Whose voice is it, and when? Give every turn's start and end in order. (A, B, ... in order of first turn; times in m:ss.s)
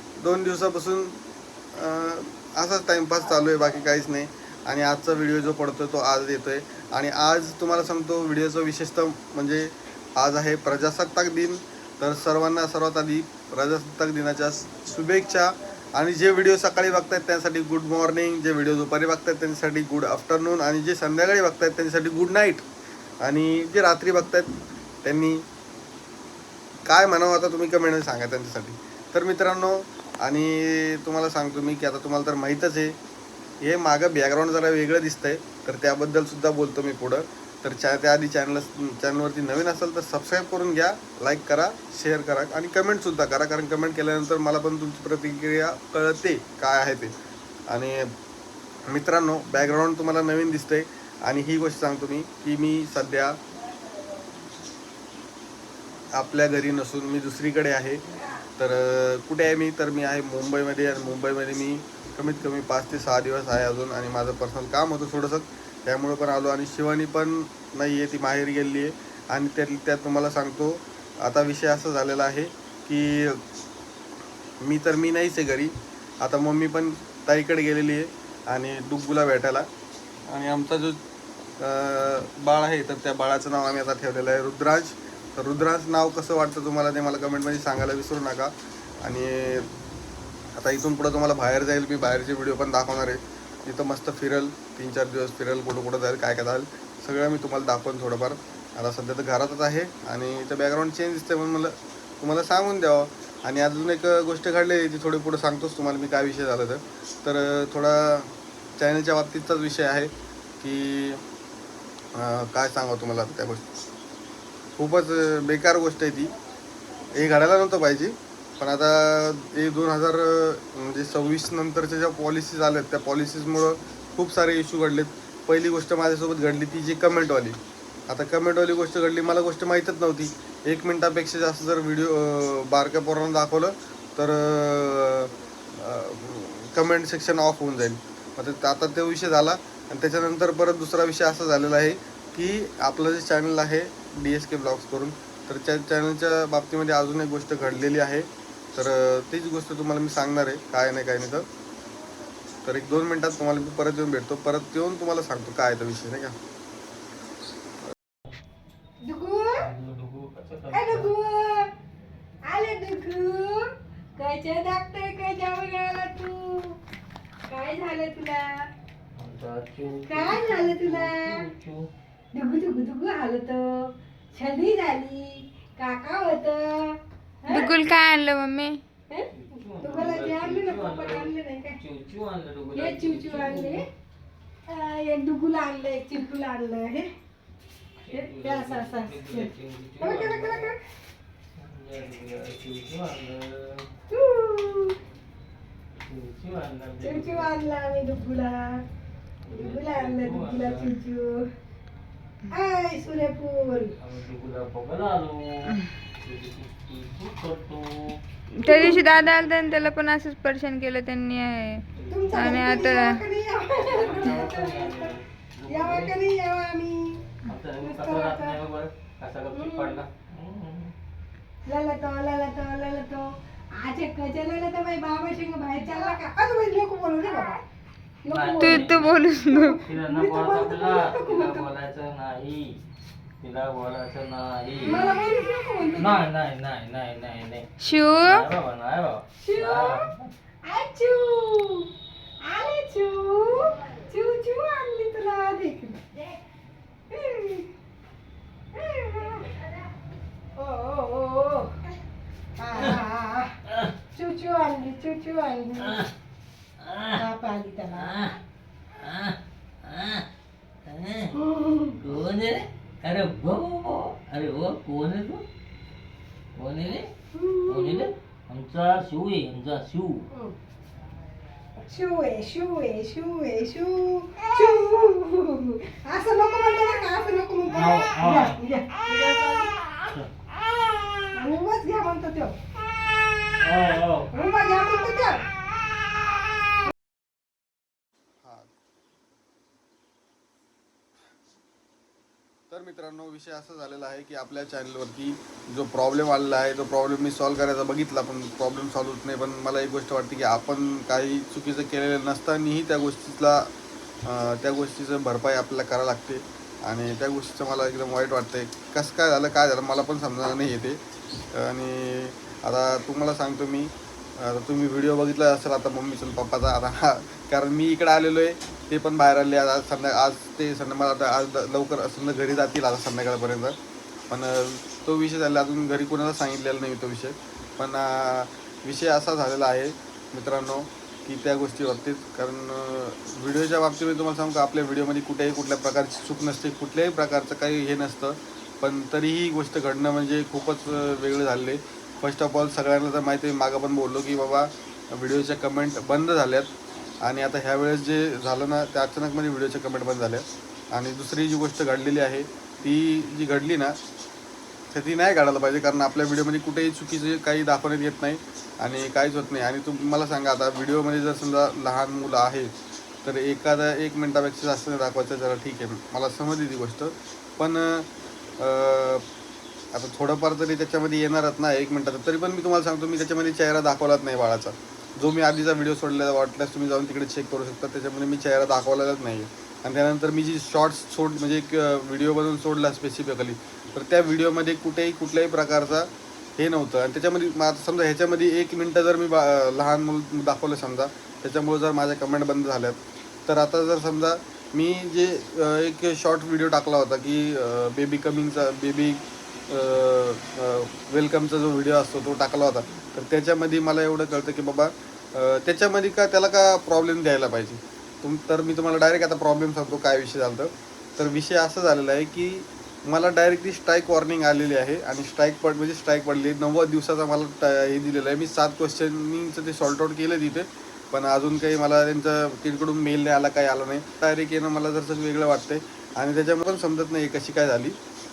0:00.2-0:01.2 A
0:01.7-0:22.6 A
0:23.2-0:25.4 A
0:26.8-0:33.0 A
0:33.6-0:47.1 A
0:47.7-0:48.1 A
0:48.9-0:53.4 A
0:56.1-0:58.0 A
0:58.6-1:13.4 A
1:14.6-1:19.7 A
1:20.3-1:21.0 A
1:21.6-1:29.7 A
1:30.6-1:51.2 A
1:52.1-1:53.6 A
1:54.8-1:56.3 A
1:57.1-2:07.6 A
2:08.1-2:31.5 A
2:32.6-2:36.4 A
2:39.0-2:39.7 B
2:39.6-2:41.1 C
2:40.7-2:41.7 B
2:42.4-2:46.8 B
2:47.4-2:48.6 B
2:49.2-2:51.9 C
2:50.0-2:51.4 B
2:52.3-2:57.7 B
2:57.5-2:58.8 D
2:59.3-3:03.8 C
2:59.8-3:01.8 B
3:02.7-3:03.8 B
3:04.7-3:07.1 B
3:08.0-3:10.7 C
3:08.1-3:10.8 B
3:11.5-3:13.9 C
3:14.1-3:15.0 B
3:16.0-3:17.5 C
3:17.0-3:18.8 B
3:19.4-3:21.0 C
3:19.5-3:21.5 B
3:22.5-3:23.9 B
3:23.8-3:28.2 C
3:28.5-3:33.2 D
3:28.6-3:29.1 B
3:32.0-3:32.7 C
3:32.1-3:35.1 B
3:33.8-3:36.2 C
3:35.7-3:37.2 B
3:37.4-3:40.9 C
3:37.8-3:38.6 B
3:39.5-3:40.0 B
3:41.6-3:47.6 B
3:48.2-3:51.7 B
3:48.3-3:49.2 C
3:48.6-3:49.8 D
3:49.8-3:52.8 C
3:53.4-3:55.3 C
3:54.8-3:56.2 B
3:55.9-4:00.3 C
3:57.8-3:58.4 D
3:59.4-4:00.1 B
4:00.6-4:06.0 B
4:07.1-4:07.7 B
4:08.7-4:09.5 B
4:10.6-4:11.8 B
4:12.6-4:13.5 B
4:14.1-4:16.0 B
4:15.8-4:16.1 C
4:16.8-4:17.2 C
4:17.1-4:18.2 B
4:17.9-4:18.3 C
4:19.0-4:20.2 C
4:20.8-4:21.4 C
4:21.4-4:21.9 B
4:22.0-4:25.4 C
4:26.5-4:27.1 C
4:27.3-4:28.1 B
4:27.6-4:30.3 C
4:31.8-4:39.8 B
4:37.7-4:38.6 C
4:41.3-4:42.6 B
4:43.6-4:44.3 C
4:44.3-4:45.4 B
4:48.4-4:48.7 A
4:52.7-5:03.7 A
5:04.2-5:11.0 A
5:11.5-5:23.8 A
5:24.3-5:54.0 A
5:54.9-6:09.2 A
6:09.9-7:08.0 A